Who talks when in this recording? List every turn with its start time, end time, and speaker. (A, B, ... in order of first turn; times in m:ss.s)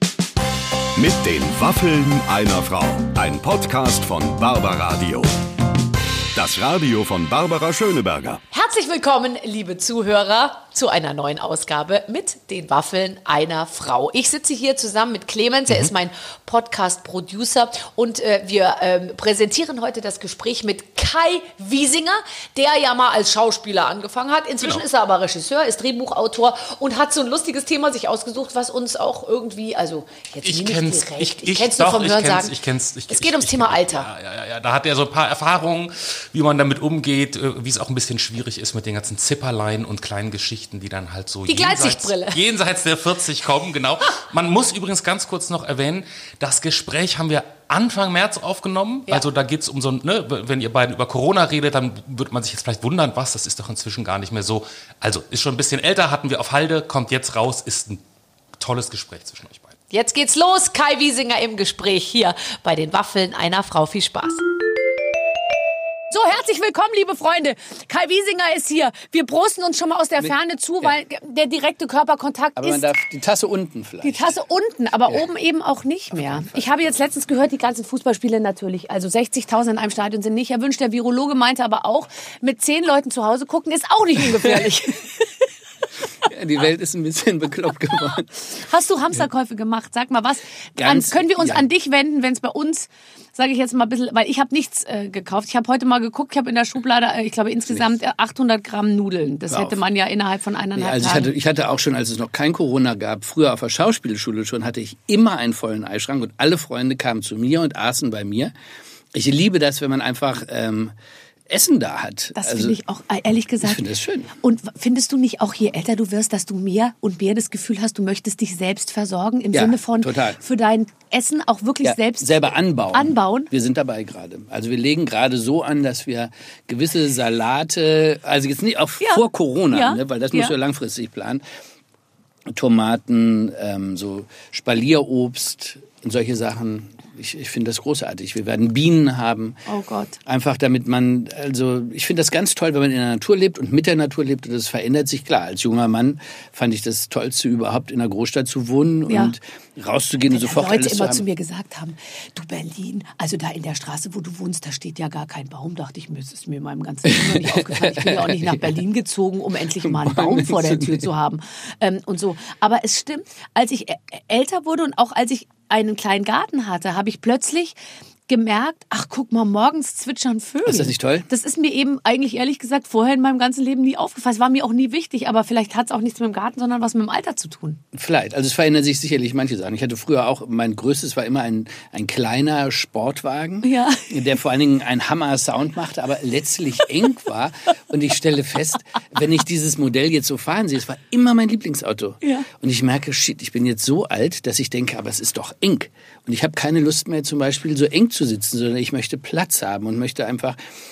0:01.0-0:05.3 A
0:06.3-0:08.4 A
0:08.5-0:32.5 B
0:30.4-0:58.0 C
0:33.1-0:34.1 B
0:41.5-0:42.4 B
0:58.6-0:59.7 C
0:59.9-1:04.4 B
1:06.1-1:12.9 B
1:12.6-1:14.3 D
1:14.0-1:25.4 B
1:24.4-1:24.7 D
1:26.2-1:28.3 D
1:28.5-1:41.3 B
1:30.8-1:31.6 D
1:39.5-1:39.8 D
1:40.8-1:48.5 D
1:49.1-1:51.0 D
1:51.5-1:52.8 D
1:52.4-1:53.8 B
1:53.6-1:54.3 D
1:54.4-2:03.5 B
1:59.5-2:00.4 D
2:01.8-2:11.4 D
2:09.0-2:10.5 B
2:12.5-2:19.6 D
2:19.7-2:20.2 B
2:20.3-2:31.2 D
2:29.1-2:29.3 B
2:30.3-2:47.8 B
2:37.1-2:38.6 D
2:39.8-2:41.0 D
2:48.3-2:57.8 B
2:50.7-2:51.3 D
2:57.9-3:20.6 D
3:03.6-3:04.1 B
3:12.2-3:12.5 B